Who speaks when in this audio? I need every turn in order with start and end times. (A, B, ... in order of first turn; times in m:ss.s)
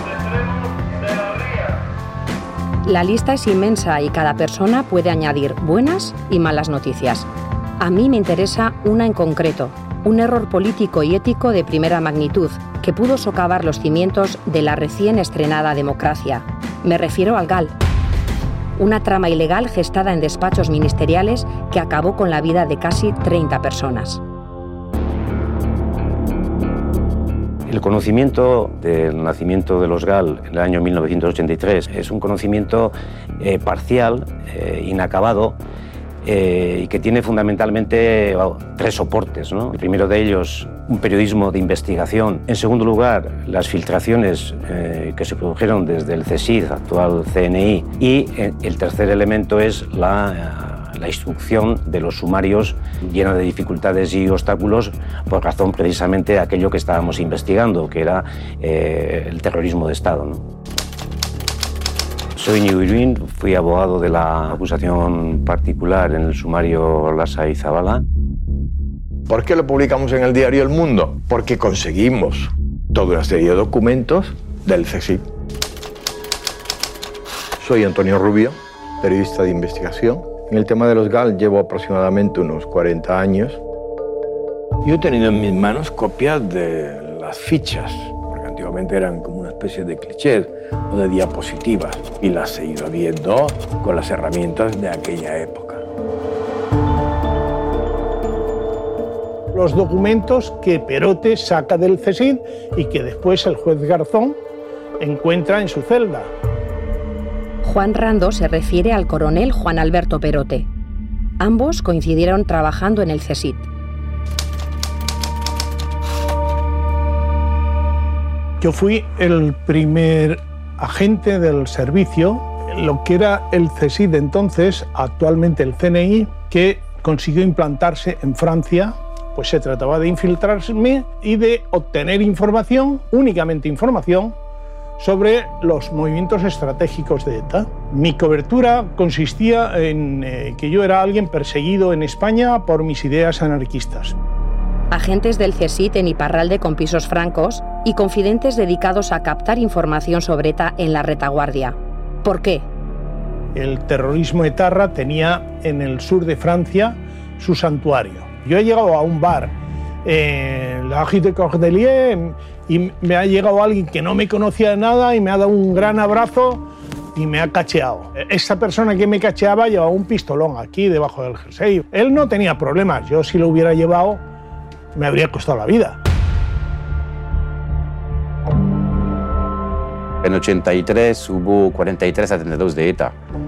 0:02.8-0:07.3 A
0:07.8-0:17.7 A
0:18.8-0:24.2 A
0:27.7-0:35.6 B
0:36.2-1:00.5 B
1:02.4-1:08.0 B
1:09.3-1:15.3 C
1:17.6-1:23.6 C
1:24.8-1:35.8 C
1:39.5-1:44.4 D
1:45.0-1:46.3 D
1:47.6-1:50.7 A
1:51.4-1:53.7 A
1:58.6-2:14.4 D
2:15.0-2:24.2 D
2:24.9-2:32.7 A
2:33.5-2:54.2 D
2:55.0-2:56.0 D
3:00.2-3:03.2 E